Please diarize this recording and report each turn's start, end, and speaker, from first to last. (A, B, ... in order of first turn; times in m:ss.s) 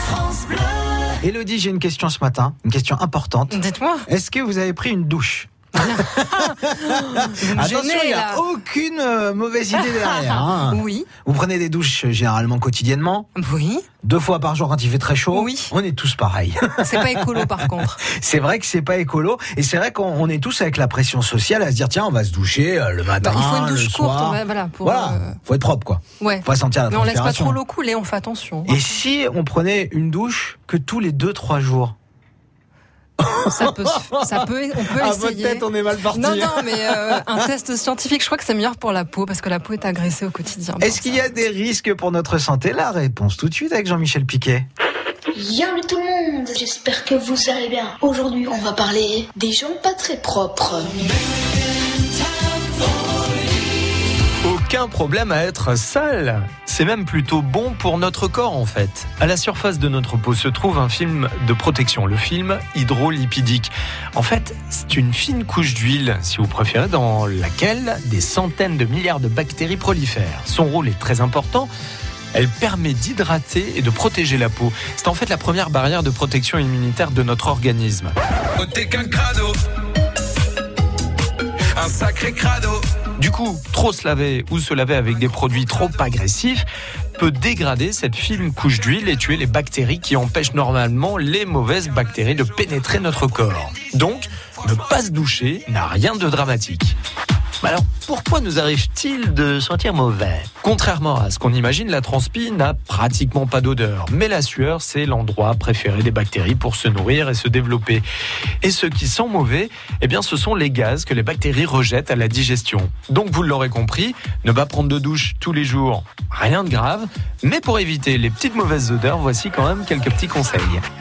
0:01.2-0:13.3 A
0:03.5-0:04.0 B
0:05.9-0:08.4 B
0:10.3-0:11.1 B
0:13.4-0:13.9 B
0:14.0-0:27.6 A
0:15.3-0:15.7 B
0:16.8-0:18.0 B
0:23.2-0:25.4 B
0:26.2-0:28.8 B
0:28.7-0:32.0 A
0:33.2-0:37.4 A
0:33.4-0:41.4 B
0:40.8-0:44.7 A
0:45.4-0:51.2 C
0:54.4-1:11.7 D
1:12.3-1:18.1 D
1:18.6-1:19.5 E
1:21.8-1:22.8 E
1:23.2-1:26.6 D
1:27.2-1:37.0 D
1:37.6-1:48.0 D
1:48.6-2:00.8 D